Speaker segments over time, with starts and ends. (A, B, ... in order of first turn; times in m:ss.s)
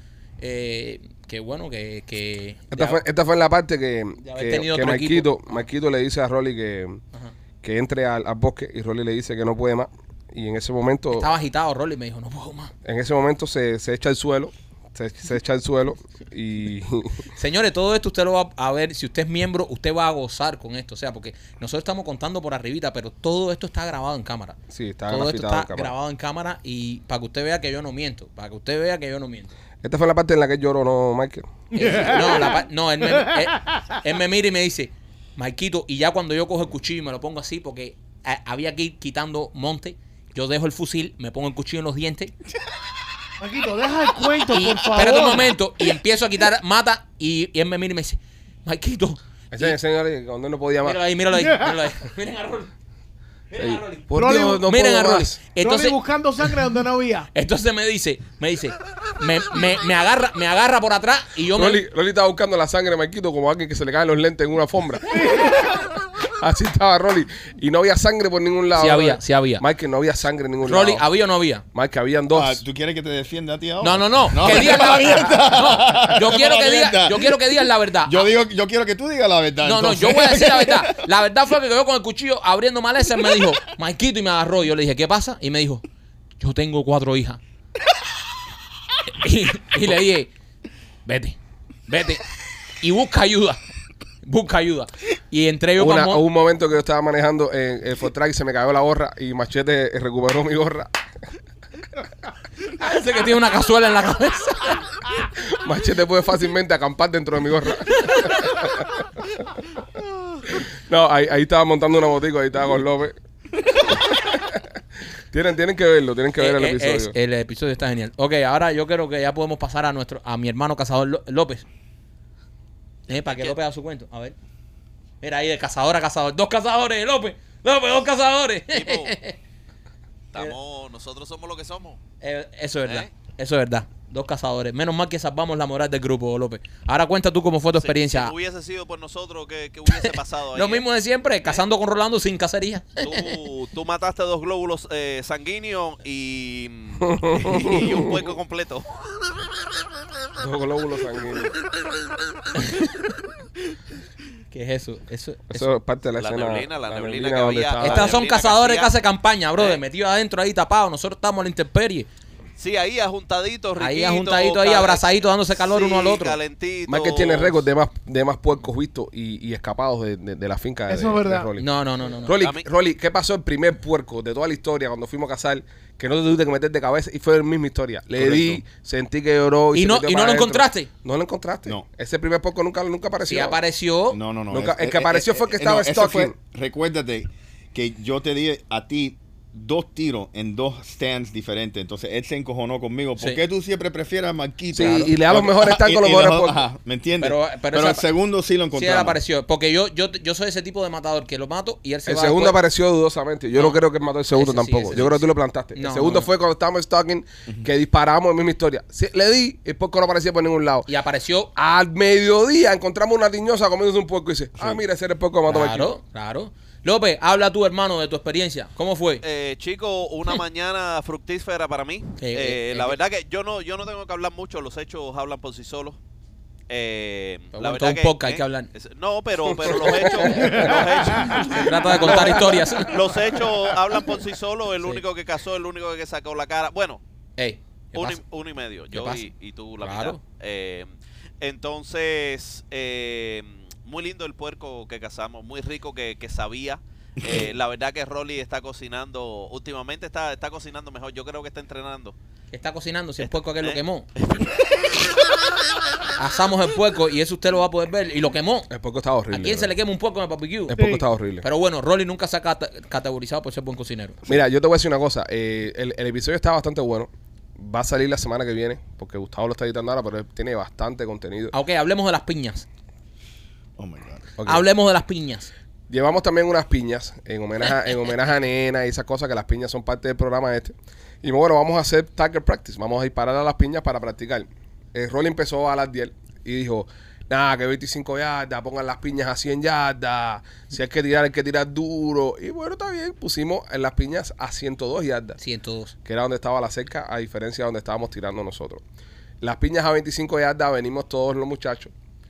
0:00.4-0:03.0 A
0:02.7-0:07.0 B
0:04.2-0:05.7 A
0:07.6-0:11.3 B
0:11.1-0:12.7 A
0:12.8-0:17.2 B
0:17.4-0:29.5 A
0:24.7-0:25.9 B
0:29.8-0:31.5 B
0:31.7-0:42.3 A
0:31.8-0:32.6 C
0:43.4-0:45.6 C
0:44.5-0:49.8 A
0:49.5-0:51.0 B
0:50.8-0:52.7 A
0:51.3-0:51.8 C
0:53.5-0:56.5 A
0:53.6-0:55.4 B
0:54.2-0:54.6 C
0:55.6-0:57.3 C
0:57.3-1:01.8 A
1:01.5-1:11.0 B
1:08.8-1:09.6 A
1:10.6-1:11.6 A
1:11.7-1:12.6 B
1:12.3-1:17.4 D
1:13.8-1:18.3 A
1:18.0-1:21.1 D
1:19.6-1:25.8 A
1:26.4-1:27.4 A
1:29.1-1:30.3 A
1:31.1-1:31.4 A
1:31.9-1:32.2 A
1:32.8-1:33.6 A
1:34.2-1:36.2 A
1:35.8-1:40.9 B
1:42.8-1:44.8 A
1:45.5-1:48.8 B
1:50.5-1:53.2 B
1:54.1-1:54.6 B
1:55.3-1:57.1 B
1:56.4-2:01.6 A
2:03.1-2:04.4 A
2:03.1-2:03.6 E
2:05.2-2:09.4 A
2:08.7-2:09.1 E
2:10.3-2:12.0 E
2:12.2-2:18.3 A
2:12.8-2:13.1 E
2:17.7-2:20.8 E
2:19.9-2:23.4 A
2:23.0-2:28.9 E
2:27.0-2:28.0 B
2:30.4-2:31.6 B
2:32.6-2:32.9 A
2:34.5-2:35.8 A
2:35.5-2:38.2 B
2:36.2-2:38.9 E
2:37.8-2:42.1 A
2:42.6-2:47.7 E
2:43.8-2:46.4 A
2:46.9-2:51.7 B
2:50.9-2:51.5 C
2:51.6-2:52.4 A
2:52.2-3:03.6 B
2:52.3-2:52.6 E
2:58.2-2:58.6 D
2:59.7-3:00.9 A
3:03.3-3:04.2 A
3:04.1-3:19.2 D
3:04.5-3:06.3 B
3:14.7-3:16.6 B
3:14.8-3:15.1 A
3:17.2-3:18.0 A
3:18.7-3:22.6 A
3:22.1-3:30.9 B
3:23.6-3:23.8 A
3:24.3-3:26.3 A
3:30.9-3:31.5 A
3:31.6-3:35.9 B
3:34.6-3:34.8 D
3:35.5-3:39.2 A
3:39.2-3:46.0 E
3:42.2-3:43.0 A
3:46.7-3:57.0 E
3:47.5-3:48.7 A
3:49.6-3:50.8 B
3:50.4-3:50.7 A
3:51.3-3:53.0 A
3:51.7-3:52.9 B
3:57.4-3:58.2 A
3:58.0-4:12.2 E
3:58.9-3:59.2 A
3:59.8-4:00.2 A
4:12.5-4:14.1 A
4:13.2-4:15.0 E
4:16.2-4:18.7 A
4:18.7-4:19.7 B
4:19.3-4:20.8 A
4:20.7-4:21.4 B
4:20.8-4:21.0 C
4:21.4-4:24.2 A
4:24.3-4:31.5 B
4:31.5-4:32.7 A
4:33.8-4:34.3 D
4:34.4-4:34.7 B
4:34.4-4:35.5 A
4:35.9-4:55.4 B
4:55.4-4:55.9 A
4:56.0-4:58.8 B
4:59.4-5:01.9 B